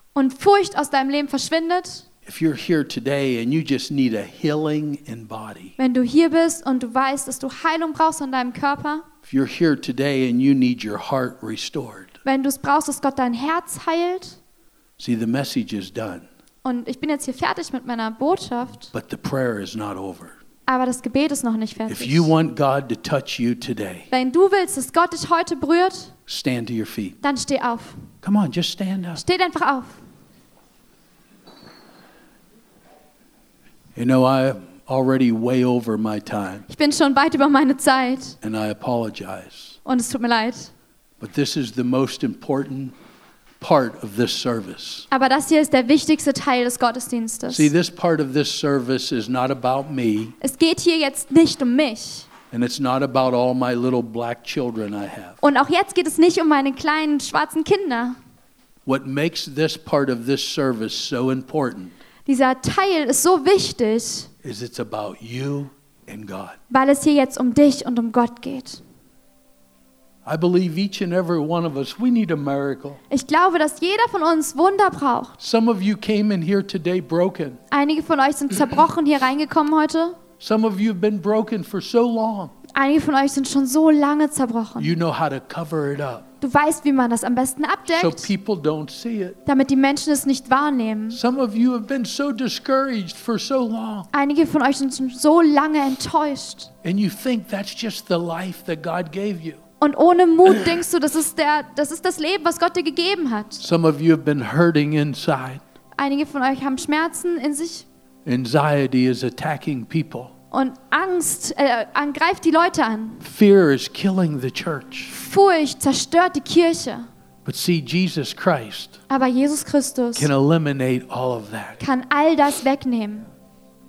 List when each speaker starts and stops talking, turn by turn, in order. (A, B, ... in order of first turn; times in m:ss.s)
0:00.1-0:02.0 A
0:02.2-0:05.7 B
0:05.8-0:09.0 A
0:09.2-0:12.1 B
0:12.2-0:14.4 A
0:15.0-0:16.2 B
0:16.6-0:18.9 A
0:18.9-0:20.3 B
0:20.7-0:22.3 A
0:21.9-0:24.1 B
0:24.1-0:26.1 A
0:26.3-0:27.2 B
0:27.2-0:28.1 A
0:28.2-0:29.2 B
0:29.2-0:30.0 A
0:34.0-0:36.6 B
0:36.7-0:38.3 A
0:38.4-0:39.8 B
0:39.8-0:40.7 A
0:41.2-0:42.9 B
0:43.6-0:45.0 B
0:45.1-0:47.7 A
0:47.5-0:50.3 B
0:50.4-0:52.3 A
0:52.5-0:55.4 B
0:55.4-0:58.2 A
0:58.8-1:01.9 B
1:02.2-1:04.3 A
1:04.4-1:06.6 B
1:06.7-1:08.8 A
1:10.2-1:13.0 B
1:13.1-1:15.4 A
1:15.4-1:17.6 B
1:17.7-1:20.2 A
1:20.4-1:22.5 B
1:22.7-1:24.9 A
1:24.8-1:26.2 B
1:26.4-1:28.3 A
1:27.9-1:29.4 B
1:29.4-1:31.2 A
1:31.1-1:34.1 B
1:34.1-1:36.7 A
1:36.8-1:39.6 B
1:39.8-1:43.6 A
1:43.6-1:45.6 B
1:46.0-1:47.8 A
1:48.2-1:50.3 B
1:50.5-1:53.2 A
1:53.2-1:55.1 B
1:55.1-1:57.1 A
1:57.4-1:58.9 B
1:59.1-2:00.3 A
2:00.2-2:01.8 B
2:01.8-2:03.2 A